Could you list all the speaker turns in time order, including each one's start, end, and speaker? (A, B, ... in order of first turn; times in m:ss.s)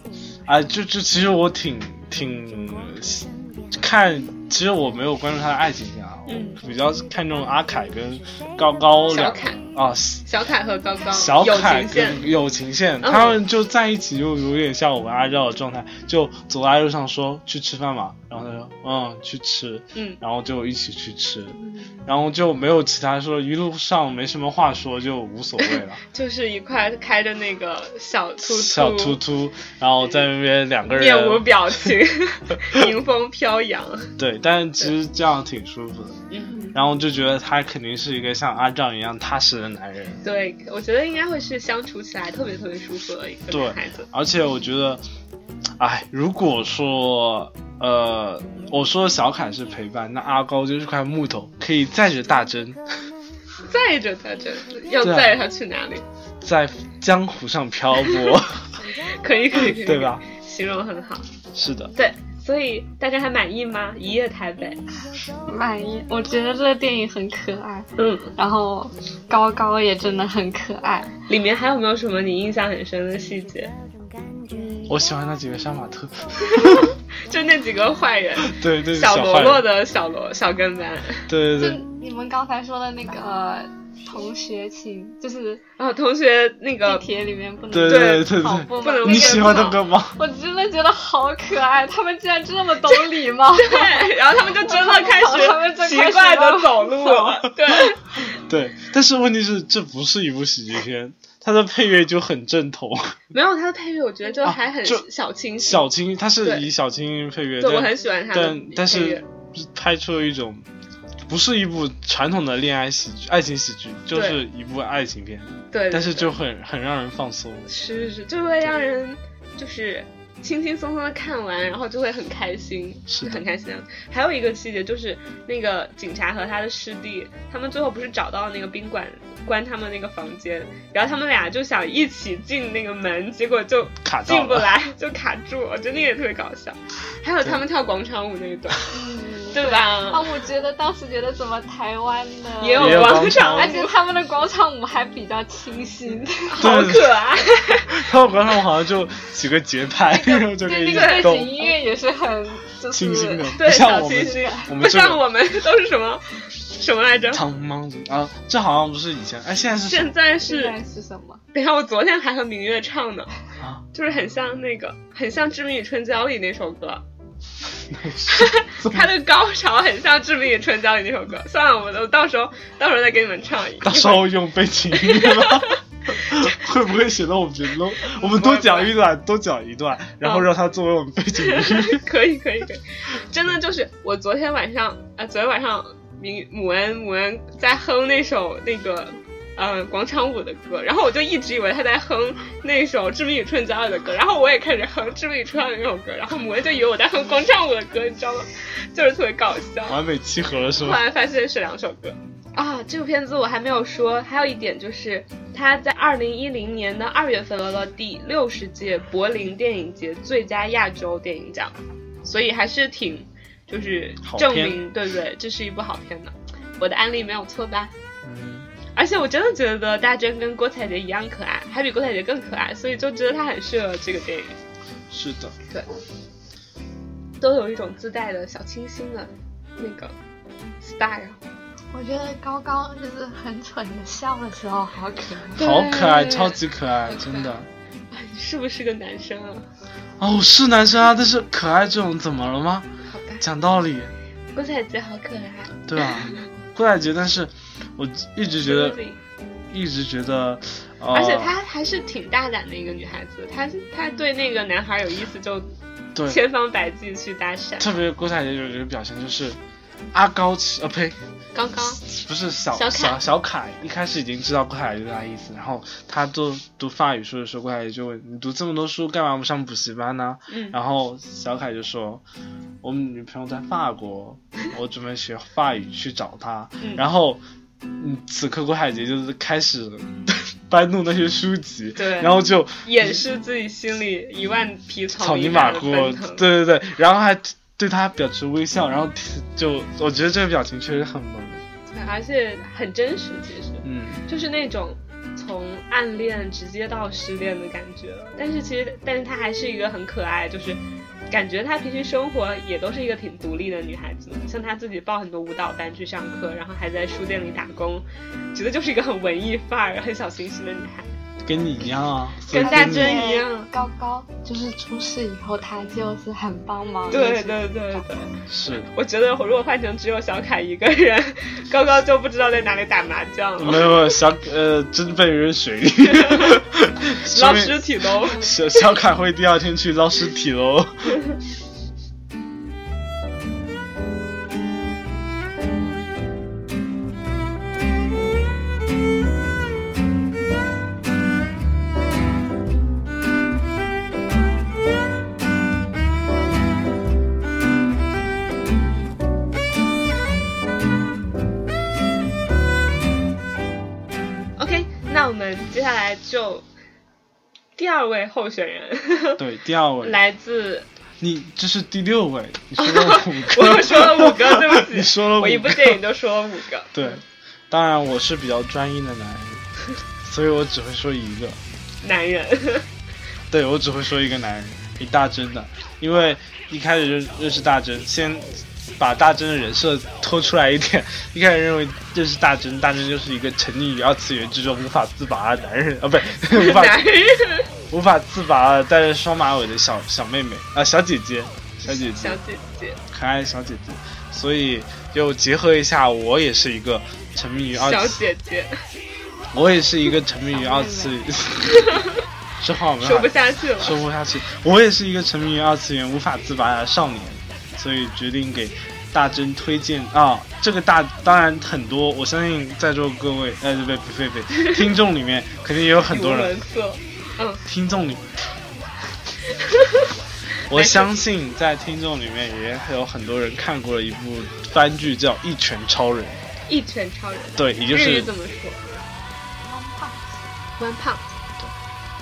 0:00.4-0:10.2 A
0:06.3-0:06.6 B
0:09.1-0:09.6 B
0:10.2-0:12.3 B
0:11.1-0:26.0 A
0:13.0-0:13.4 B
0:26.1-0:29.2 B
0:28.4-0:31.9 A
0:30.9-0:34.1 B
0:34.2-0:36.2 A
0:36.3-0:36.7 B
0:36.7-0:40.2 A
0:40.2-0:44.1 B
0:43.5-0:45.0 A
0:45.8-0:52.8 A
0:53.7-0:56.0 B
0:55.0-0:55.4 A
0:56.4-0:58.8 A
0:59.2-1:01.3 B
0:59.6-1:00.2 A
1:01.6-1:01.9 A
1:02.0-1:04.8 B
1:05.5-1:11.2 C
1:08.0-1:08.3 B
1:11.3-1:13.7 B
1:14.9-1:16.9 A
1:16.5-1:21.3 B
1:18.4-1:19.7 A
1:21.3-1:21.8 A
1:21.6-1:25.6 C
1:25.8-1:27.0 B
1:26.8-1:37.4 C
1:27.7-1:30.2 A
1:27.8-1:29.8 B
1:33.6-1:38.0 B
1:38.2-1:43.1 A
1:43.3-1:45.9 B
1:44.4-1:45.0 A
1:45.6-1:50.7 A
1:46.4-1:46.7 B
1:47.6-1:49.2 B
1:51.3-1:57.7 A
1:54.1-1:54.4 B
1:55.7-1:56.4 B
1:57.7-2:19.0 B
2:03.1-2:03.4 A
2:14.0-2:14.7 A
2:18.9-2:26.8 C
2:19.5-2:20.3 B
2:22.6-2:24.0 B
2:22.8-2:23.8 A
2:26.5-2:28.0 B
2:26.6-2:27.2 A
2:27.9-2:31.7 A
2:30.3-2:34.7 C
2:30.9-2:31.5 B
2:32.9-2:35.2 A
2:33.6-2:37.4 B
2:37.3-2:40.1 A
2:39.9-2:40.8 B
2:40.4-2:41.4 C
2:41.5-2:43.3 B
2:43.9-2:47.0 B
2:47.9-2:49.1 A
2:48.3-2:54.3 B
2:53.8-3:02.0 A
2:55.0-2:55.7 B
2:58.0-2:58.9 B
3:00.2-3:00.5 B
3:01.4-3:20.0 B
3:19.9-3:21.0 A
3:20.8-3:37.9 B
3:34.2-3:34.8 A
3:38.2-3:38.7 A
3:39.0-3:44.6 B
3:45.1-3:45.6 A
3:47.4-3:50.1 B
3:50.8-3:51.4 B
3:51.9-3:55.6 C
3:55.6-3:57.5 B
3:55.6-3:57.7 A
3:58.1-3:59.7 B
4:00.2-4:02.9 A
4:03.1-4:03.4 B
4:03.4-4:04.1 A
4:04.6-4:06.4 B
4:05.9-4:09.0 A
4:08.6-4:09.2 B
4:09.7-4:11.5 A
4:11.1-4:15.7 B
4:16.2-4:16.4 A
4:16.3-4:17.9 B
4:17.8-4:19.6 A
4:20.1-4:21.2 A
4:21.6-4:22.0 B
4:22.1-4:32.2 A
4:22.7-4:23.2 B
4:30.5-4:30.8 B
4:32.8-4:37.4 A
4:38.0-4:43.2 A
4:42.0-4:46.4 B
4:45.2-4:51.6 A
4:51.9-5:11.1 B
4:53.8-4:54.2 A
5:11.4-5:13.2 A
5:12.5-5:13.7 B
5:12.6-5:18.0 C
5:17.1-5:18.3 B
5:18.5-5:18.9 A
5:18.8-5:24.1 B
5:23.6-5:31.2 A
5:26.0-5:26.6 B
5:27.3-5:28.8 B
5:54.6-5:56.6 B
5:57.8-5:59.4 B
5:59.4-6:00.2 A
6:00.0-6:00.9 B
6:01.2-6:06.0 A
6:02.8-6:07.2 B
6:06.9-6:09.7 A
6:10.2-6:11.6 A
6:12.0-6:12.9 B
6:13.5-6:27.1 A
6:26.5-6:27.7 B
6:27.9-6:32.4 A
6:31.8-6:33.0 B
6:33.1-6:38.2 A
6:37.7-6:38.7 B
6:39.5-6:41.9 A
6:40.4-6:41.2 C
6:41.7-6:42.1 B
6:42.6-6:56.5 A
6:43.0-6:44.0 B
6:56.1-6:57.6 B
6:57.7-6:58.3 A
6:59.6-7:00.1 B
7:00.7-7:06.4 A
7:00.7-7:01.2 B
7:06.7-7:09.0 B
7:07.6-7:08.3 A
7:09.6-7:10.5 C
7:10.8-7:11.3 B